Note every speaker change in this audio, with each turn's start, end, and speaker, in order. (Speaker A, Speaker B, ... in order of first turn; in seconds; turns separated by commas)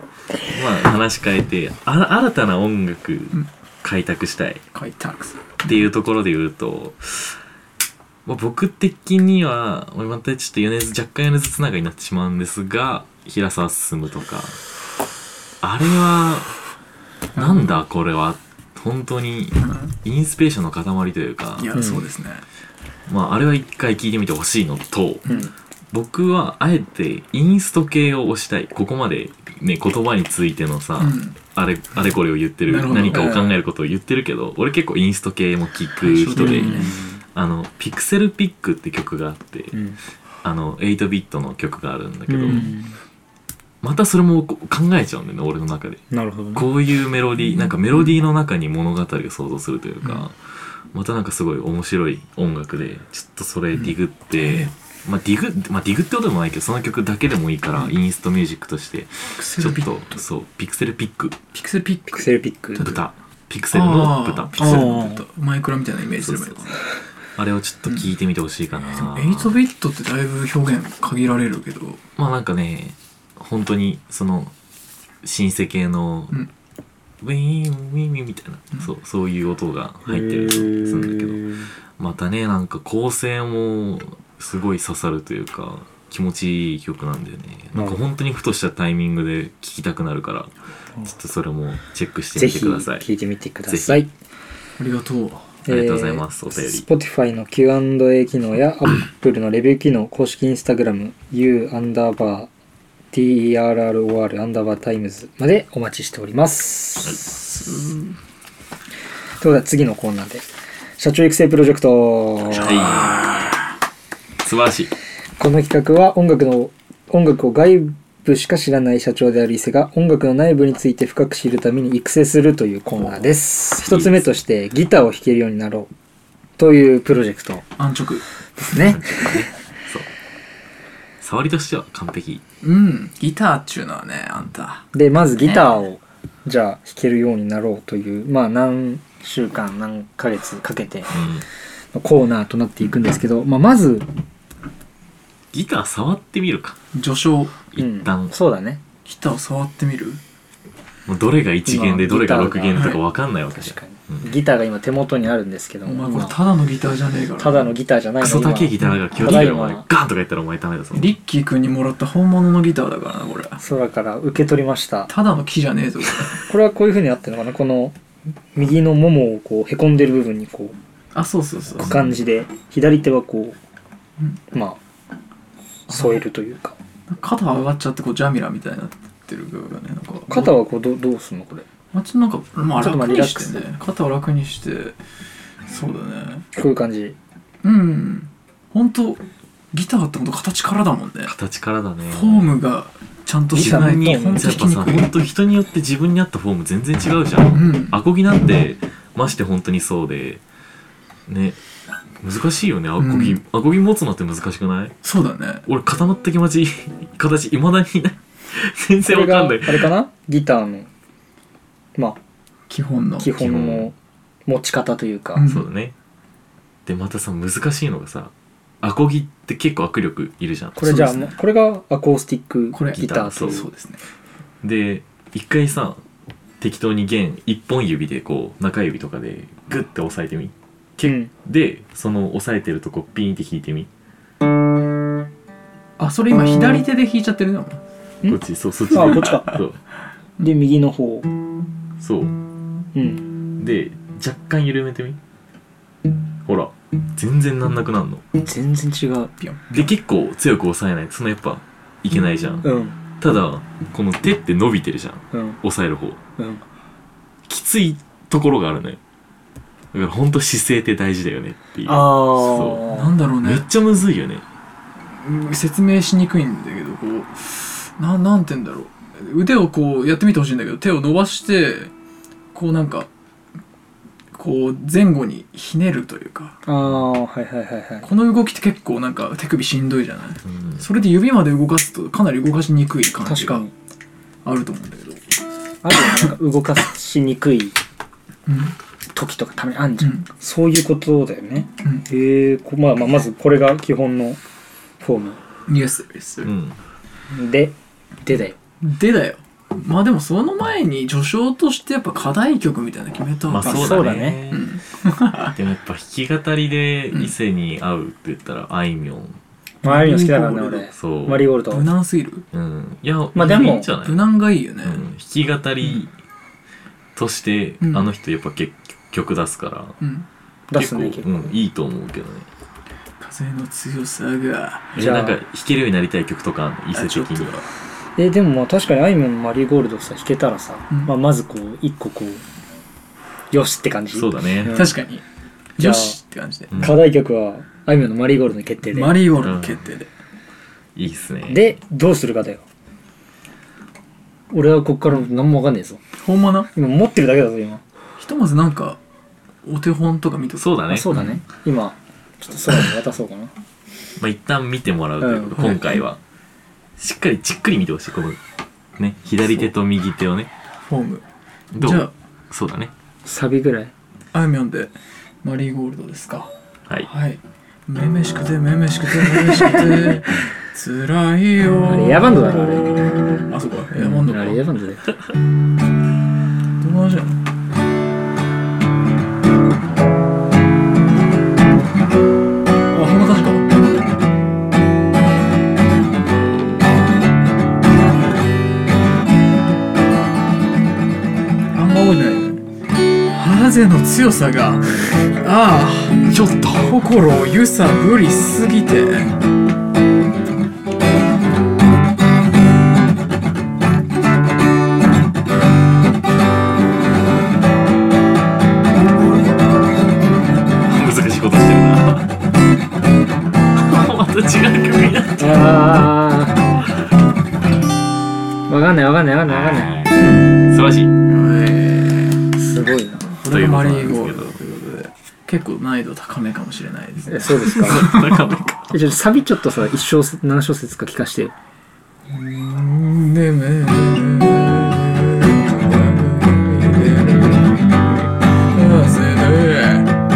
Speaker A: 0.5-4.6, Speaker B: 4.7-5.8, Speaker A: 5.7-7.4, Speaker A: 8.2-14.6, Speaker A: 15.6-16.6, Speaker A: 17.4-21.7, Speaker B: 17.4-17.8, Speaker B: 19.6-19.9, Speaker B: 21.6-22.4, Speaker C: 21.8-22.0, Speaker A: 23.1-25.3, Speaker C: 25.3-25.5, Speaker A: 25.9-39.8, Speaker B: 31.0-31.4, Speaker B: 32.7-33.4, Speaker C: 33.1-33.5, Speaker B: 36.0-37.0, Speaker C: 36.4-37.2, Speaker C: 39.7-40.0, Speaker A: 40.4-42.8, Speaker C: 42.3-43.0, Speaker A: 43.8-46.0, Speaker C: 46.1-46.7, Speaker A: 46.5-50.4, Speaker B: 47.5-48.1, Speaker A: 50.9-61.4, Speaker B: 53.7-54.7, Speaker B: 59.4-60.2, Speaker B: 61.5-63.1, Speaker C: 62.1-62.9, Speaker A: 62.8-65.0, Speaker B: 63.7-66.8, Speaker C: 64.6-65.2, Speaker A: 66.2-66.6, Speaker A: 67.4-69.6, Speaker B: 68.9-72.0, Speaker A: 72.2-74.5, Speaker A: 75.2-76.4, Speaker A: 77.2-90.5, Speaker C: 80.1-81.7, Speaker C: 87.8-88.0, Speaker A: 91.0-93.1, Speaker C: 92.4-94.1, Speaker A: 93.7-94.0, Speaker B: 94.8-95.5, Speaker C: 95.7-102.5, Speaker A: 95.7-96.9, Speaker C: 103.1-107.3, Speaker B: 107.4-108.1, Speaker C: 109.4-110.5, Speaker C: 111.0-113.2, Speaker A: 112.5-113.3, Speaker B: 113.0-113.4, Speaker A: 114.4-114.9, Speaker C: 115.4-125.9, Speaker B: 123.0-123.2, Speaker A: 123.8-124.2, Speaker C: 126.6-127.7, Speaker B: 127.8-128.2, Speaker C: 128.6-129.3, Speaker A: 128.8-130.1, Speaker A: 131.2-132.4, Speaker B: 132.6-135.7, Speaker C: 134.9-141.2, Speaker A: 141.1-141.4, Speaker C: 141.9-144.1, Speaker A: 145.5-146.8, Speaker B: 146.9-147.6, Speaker A: 147.7-148.3, Speaker C: 147.8-148.8, Speaker B: 149.1-150.2, Speaker A: 151.1-154.3, Speaker C: 151.7-152.9, Speaker B: 152.7-153.0, Speaker C: 153.5-156.3, Speaker B: 155.9-157.7, Speaker C: 157.4-159.9, Speaker A: 158.2-161.2, Speaker B: 160.9-163.6, Speaker C: 163.6-165.1, Speaker B: 165.1-166.4, Speaker C: 166.5-168.0, Speaker C: 168.6-170.8, Speaker B: 171.1-172.0, Speaker C: 171.8-173.6, Speaker C: 174.5-174.8, Speaker C: 175.9-176.8, Speaker B: 175.9-176.2, Speaker B: 177.1-180.5, Speaker C: 180.3-181.7, Speaker B: 181.9-185.0, Speaker C: 182.8-183.7, Speaker B: 185.7-186.4, Speaker C: 186.5-187.2, Speaker B: 187.6-191.3, Speaker A: 191.3-192.6, Speaker B: 192.1-195.1, Speaker C: 193.5-194.5, Speaker A: 193.6-200.4, Speaker B: 197.5-198.0, Speaker A: 201.3-201.6, Speaker A: 202.2-204.9, Speaker B: 203.0-203.4, Speaker B: 205.0-205.7, Speaker A: 205.7-209.9, Speaker C: 209.0-210.9, Speaker B: 212.7-213.4, Speaker C: 213.2-213.9, Speaker A: 213.4-213.9, Speaker C: 214.5-215.5, Speaker B: 215.4-215.7, Speaker A: 215.4-215.9, Speaker A: 216.9-221.0, Speaker C: 220.8-223.7, Speaker B: 220.8-221.3, Speaker B: 222.7-224.0, Speaker A: 222.9-223.7, Speaker A: 224.6-226.0, Speaker A: 226.6-233.9, Speaker C: 231.0-231.3, Speaker B: 236.0-237.8, Speaker A: 238.2-239.8, Speaker C: 238.9-239.6, Speaker B: 239.1-239.6, Speaker C: 240.4-241.3, Speaker A: 242.0-242.4, Speaker C: 242.9-243.3, Speaker A: 243.6-245.2, Speaker A: 246.5-248.2, Speaker C: 248.4-249.3, Speaker B: 249.4-249.9, Speaker A: 249.7-252.7, Speaker C: 252.6-253.0, Speaker A: 253.2-256.2, Speaker C: 255.3-255.6, Speaker C: 256.4-256.6, Speaker A: 257.5-259.0, Speaker A: 259.9-262.9, Speaker C: 261.9-263.1, Speaker B: 262.9-263.7, Speaker A: 263.4-264.4, Speaker B: 265.1-271.9, Speaker B: 272.5-273.1, Speaker B: 274.3-276.6, Speaker C: 276.7-278.1, Speaker B: 278.0-283.7, Speaker A: 280.5-280.9, Speaker C: 283.2-283.7, Speaker B: 284.4-285.2, Speaker C: 285.8-287.8, Speaker B: 285.9-286.3, Speaker B: 288.5-288.8, Speaker C: 289.1-294.4, Speaker B: 290.0-290.3, Speaker C: 295.0-295.4, Speaker B: 295.7-296.5, Speaker A: 296.4-296.8, Speaker C: 297.3-298.6, Speaker B: 298.8-305.6, Speaker A: 303.5-304.7, Speaker C: 303.6-304.4, Speaker A: 305.5-309.4, Speaker B: 309.8-310.9, Speaker C: 309.8-311.9, Speaker A: 310.9-311.4, Speaker B: 311.7-312.5, Speaker A: 312.5-314.2, Speaker C: 313.4-313.9, Speaker B: 313.4-315.0, Speaker A: 314.8-316.1, Speaker A: 317.1-320.0, Speaker B: 317.8-318.1, Speaker B: 320.0-320.3, Speaker C: 320.7-321.5, Speaker A: 320.8-322.5, Speaker B: 323.2-324.9, Speaker C: 324.9-325.4, Speaker A: 324.9-327.6, Speaker B: 326.9-327.7, Speaker C: 328.2-332.4, Speaker C: 333.5-335.0, Speaker A: 334.1-334.8, Speaker B: 334.7-335.2, Speaker B: 335.8-337.0, Speaker C: 335.8-336.2, Speaker A: 336.7-337.0, Speaker C: 336.8-339.2, Speaker B: 338.9-340.1, Speaker A: 339.4-339.9, Speaker A: 340.9-341.7, Speaker C: 341.5-342.6, Speaker C: 344.5-346.0, Speaker B: 346.2-346.7, Speaker C: 346.8-347.8, Speaker B: 348.2-349.0, Speaker B: 349.7-351.4, Speaker A: 350.6-351.2, Speaker C: 350.9-353.5, Speaker A: 354.2-356.2, Speaker C: 355.2-355.8, Speaker B: 355.6-355.9, Speaker A: 357.0-358.4, Speaker A: 359.0-360.5, Speaker B: 360.9-361.2, Speaker A: 361.7-362.9, Speaker B: 361.8-362.1, Speaker C: 363.3-363.9, Speaker B: 364.3-366.5, Speaker B: 367.1-374.6, Speaker C: 369.5-370.2, Speaker C: 371.9-373.3, Speaker C: 373.9-375.1, Speaker B: 376.8-377.4, Speaker B: 382.9-383.8, Speaker B: 391.7-392.6, Speaker B: 393.3-399.4, Speaker A: 396.3-396.9, Speaker A: 410.9-412.3, Speaker A: 413.8-415.7, Speaker C: 415.4-416.6, Speaker C: 418.7-419.9, Speaker A: 419.5-421.1, Speaker B: 421.3-422.4, Speaker C: 422.6-423.3, Speaker B: 423.4-428.7, Speaker A: 423.5-424.6, Speaker C: 427.3-428.3, Speaker A: 427.6-428.9, Speaker C: 428.9-431.6, Speaker B: 432.3-440.1